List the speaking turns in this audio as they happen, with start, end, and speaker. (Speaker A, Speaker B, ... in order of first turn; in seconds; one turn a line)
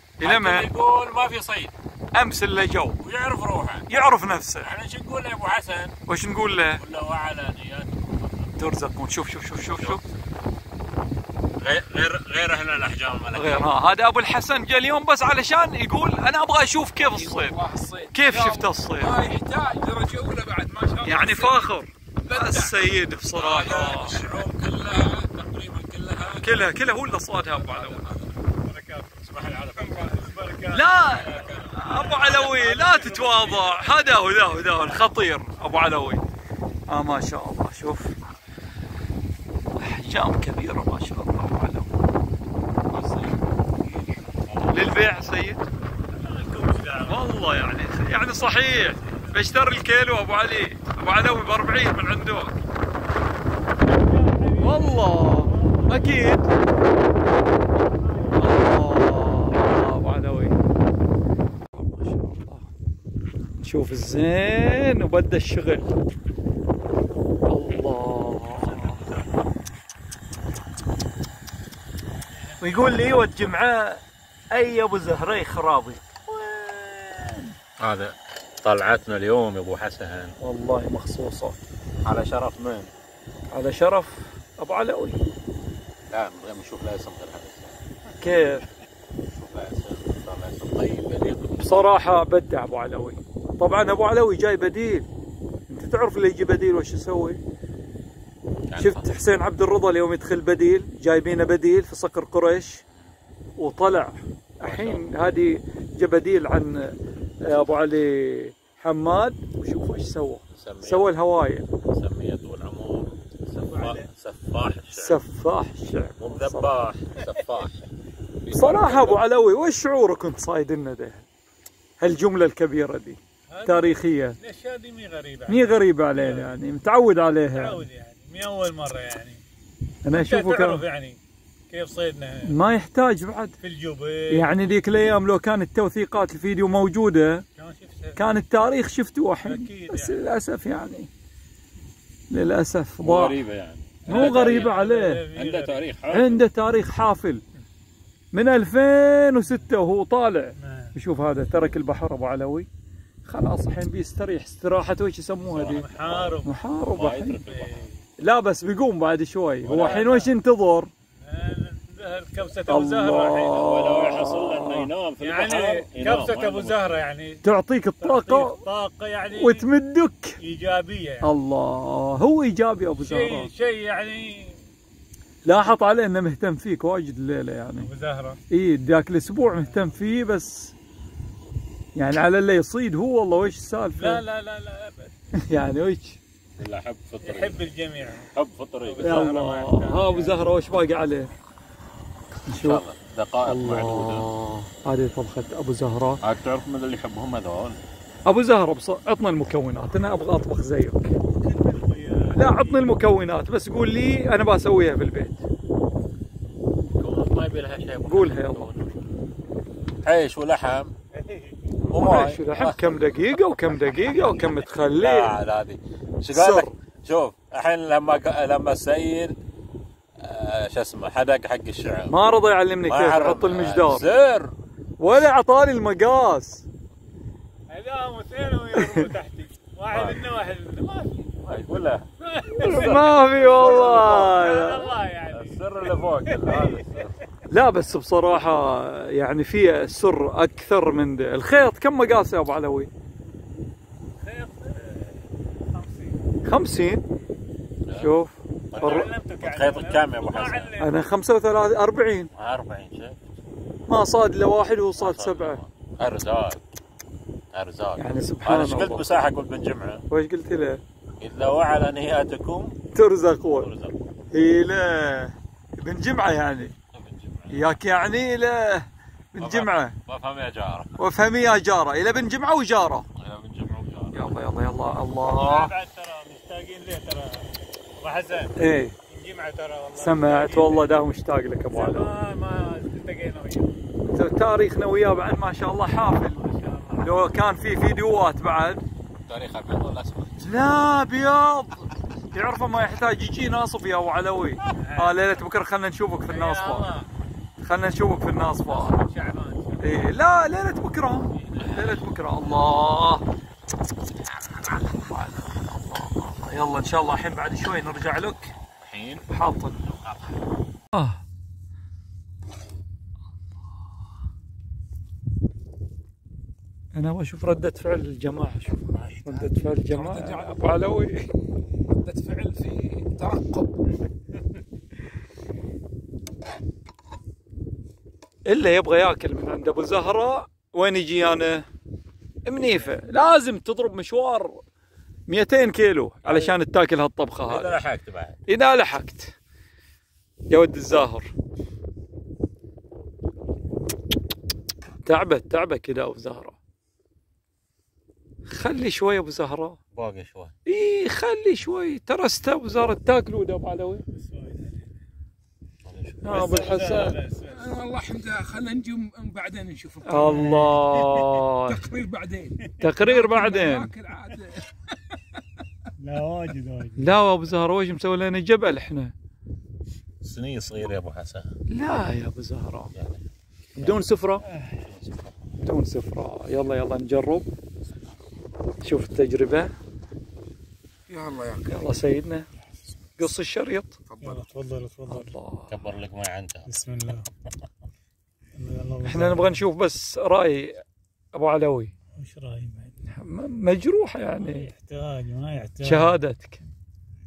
Speaker A: 0.2-0.7
Speaker B: 0.2-1.7
Speaker A: 2.1-3.0
Speaker B: 3.0-3.9
Speaker A: 3.9-4.7
Speaker B: 4.6-6.0
Speaker A: 6.1-6.8
Speaker B: 6.8-8.6
Speaker A: 8.6-10.0
Speaker B: 9.7-10.1
Speaker B: 11.6-13.7
Speaker A: 13.3-17.6
Speaker C: 17.1-21.6
Speaker A: 18.1-19.2
Speaker A: 21.1-24.2
Speaker C: 22.2-22.9
Speaker B: 23.3-26.9
Speaker A: 26.4-28.2
Speaker B: 27.6-28.3
Speaker D: 28.4-33.9
Speaker B: 29.2-32.5
Speaker A: 30.7-36.2
Speaker B: 34.6-35.0
Speaker A: 36.9-38.2
Speaker A: 39.8-41.9
Speaker B: 42.9-45.0
Speaker A: 44.7-45.7
Speaker D: 46.1-47.4
Speaker A: 47.1-52.5
Speaker D: 53.9-56.3
Speaker A: 54.6-56.5
Speaker D: 58.0-58.6
Speaker A: 58.4-60.6
Speaker A: 61.7-62.7
Speaker A: 63.6-65.9
Speaker A: 67.5-69.0
Speaker B: 68.5-69.2
Speaker A: 72.6-74.0
Speaker A: 74.5-76.0
Speaker D: 76.3-77.4
Speaker B: 77.8-80.4
Speaker A: 80.4-81.6
Speaker B: 82.0-82.9
Speaker A: 83.5-85.2
Speaker B: 86.1-87.7
Speaker A: 88.2-88.7
Speaker B: 89.3-91.9
Speaker A: 91.6-95.1
Speaker A: 95.7-97.4
Speaker B: 98.7-99.1
Speaker A: 98.8-102.8
Speaker A: 103.6-111.7
Speaker B: 104.6-105.2
Speaker B: 110.5-111.1
Speaker B: 111.8-115.2
Speaker D: 113.7-114.1
Speaker A: 115.0-116.7
Speaker B: 116.2-117.8
Speaker B: 118.5-119.2
Speaker A: 118.5-121.2
Speaker A: 122.0-124.4
Speaker D: 123.5-126.5
Speaker A: 125.5-127.9
Speaker D: 127.5-129.4
Speaker A: 130.0-130.8
Speaker D: 130.1-131.2
Speaker D: 131.7-132.6
Speaker A: 132.5-133.6
Speaker D: 133.6-134.6
Speaker A: 134.3-137.4
Speaker D: 137.6-138.2
Speaker A: 138.2-141.1
Speaker D: 139.4-140.2
Speaker A: 142.3-143.4
Speaker B: 143.0-144.8
Speaker D: 144.1-145.9
Speaker A: 144.1-145.2
Speaker B: 145.3-146.4
Speaker A: 146.1-147.4
Speaker A: 148.3-152.7
Speaker D: 150.6-150.9
Speaker A: 153.3-155.9
Speaker D: 155.5-156.6
Speaker B: 155.9-157.9
Speaker A: 156.4-157.5
Speaker D: 157.5-157.9
Speaker A: 158.2-160.9
Speaker B: 159.6-160.1
Speaker D: 159.7-160.3
Speaker D: 161.2-163.6
Speaker A: 162.7-164.9
Speaker B: 163.5-167.0
Speaker D: 165.2-167.4
Speaker A: 167.4-168.6
Speaker D: 168.0-169.7
Speaker A: 169.4-170.4
Speaker D: 170.4-171.3
Speaker A: 171.2-173.5
Speaker D: 173.0-174.6
Speaker A: 175.4-177.9
Speaker D: 177.8-178.4
Speaker A: 178.5-180.7
Speaker D: 179.5-179.9
Speaker A: 181.9-184.2
Speaker D: 184.0-185.1
Speaker A: 185.4-186.2
Speaker B: 186.6-187.6
Speaker D: 187.2-188.3
Speaker B: 188.3-189.4
Speaker D: 188.8-190.4
Speaker A: 189.0-191.3
Speaker A: 192.5-192.8
Speaker B: 192.5-194.3
Speaker A: 193.4-196.2
Speaker B: 196.2-197.8
Speaker A: 198.3-201.1
Speaker D: 201.2-202.9
Speaker A: 202.3-205.4
Speaker B: 206.9-209.0
Speaker A: 208.1-208.7
Speaker B: 210.0-210.9
Speaker D: 211.1-211.7
Speaker B: 211.9-219.3
Speaker A: 211.9-215.4
Speaker A: 216.3-216.7
Speaker B: 220.2-222.1
Speaker A: 222.1-224.1
Speaker B: 222.9-224.5
Speaker A: 225.0-226.6
Speaker D: 227.7-231.3
Speaker A: 228.8-229.1
Speaker B: 229.9-230.2
Speaker B: 231.4-232.1
Speaker D: 232.2-237.1
Speaker A: 232.5-234.9
Speaker B: 232.6-234.3
Speaker B: 235.3-237.2
Speaker A: 237.5-242.9
Speaker D: 244.2-246.3
Speaker A: 246.4-247.0
Speaker B: 247.9-248.1
Speaker A: 247.9-248.3
Speaker B: 248.7-250.7
Speaker D: 248.8-250.9
Speaker A: 250.8-252.3
Speaker B: 252.3-253.2
Speaker A: 253.9-255.6
Speaker B: 255.0-256.6
Speaker B: 257.5-260.1
Speaker A: 258.0-259.1
Speaker A: 260.1-260.8
Speaker B: 261.2-262.8
Speaker A: 262.9-263.7
Speaker B: 263.5-263.9
Speaker A: 264.3-266.7
Speaker B: 266.9-267.7
Speaker A: 267.5-269.9
Speaker B: 269.4-271.0
Speaker A: 271.0-273.1
Speaker B: 273.2-274.4
Speaker A: 274.1-275.7
Speaker D: 275.3-278.6
Speaker A: 278.6-278.9
Speaker D: 279.1-281.0
Speaker A: 280.0-282.1
Speaker D: 281.7-283.7
Speaker A: 284.1-288.8
Speaker D: 286.4-287.1
Speaker B: 289.3-290.6
Speaker A: 290.4-296.9
Speaker D: 294.8-295.2
Speaker D: 296.3-297.1
Speaker A: 297.6-299.0
Speaker D: 298.7-299.9
Speaker A: 299.8-303.2
Speaker B: 301.5-302.0
Speaker A: 304.6-308.5
Speaker B: 308.8-309.3
Speaker A: 309.3-309.8
Speaker B: 309.8-310.2
Speaker A: 310.9-311.2
Speaker A: 316.9-321.3
Speaker C: 318.9-320.6
Speaker C: 321.9-323.7
Speaker A: 328.5-331.7
Speaker A: 332.5-334.6
Speaker A: 335.3-337.9
Speaker B: 336.2-336.6
Speaker B: 337.5-338.4
Speaker A: 338.5-339.3
Speaker A: 340.5-341.3
Speaker A: 345.1-346.6
Speaker A: 348.5-349.8
Speaker B: 349.9-350.5
Speaker A: 350.7-354.0
Speaker D: 354.1-354.9
Speaker B: 355.9-356.2
Speaker A: 356.2-357.2
Speaker D: 356.3-357.7
Speaker C: 357.5-361.0
Speaker A: 360.1-361.8
Speaker D: 360.2-361.2
Speaker C: 361.6-365.6
Speaker A: 362.8-363.9
Speaker D: 366.0-367.2
Speaker A: 367.0-369.1
Speaker B: 370.2-371.5
Speaker A: 371.7-372.9
Speaker A: 373.8-374.4
Speaker B: 374.8-375.4
Speaker A: 375.6-377.5
Speaker A: 378.8-379.7
Speaker C: 381.1-381.9
Speaker A: 381.7-382.5
Speaker A: 383.2-384.0
Speaker C: 384.1-384.4
Speaker D: 384.2-385.3
Speaker A: 385.1-385.7
Speaker B: 385.7-386.7
Speaker D: 386.7-387.3
Speaker D: 388.6-389.6
Speaker A: 389.0-390.8
Speaker A: 391.4-391.9
Speaker D: 392.1-392.9
Speaker A: 393.1-394.7
Speaker D: 394.4-396.2
Speaker A: 395.8-396.6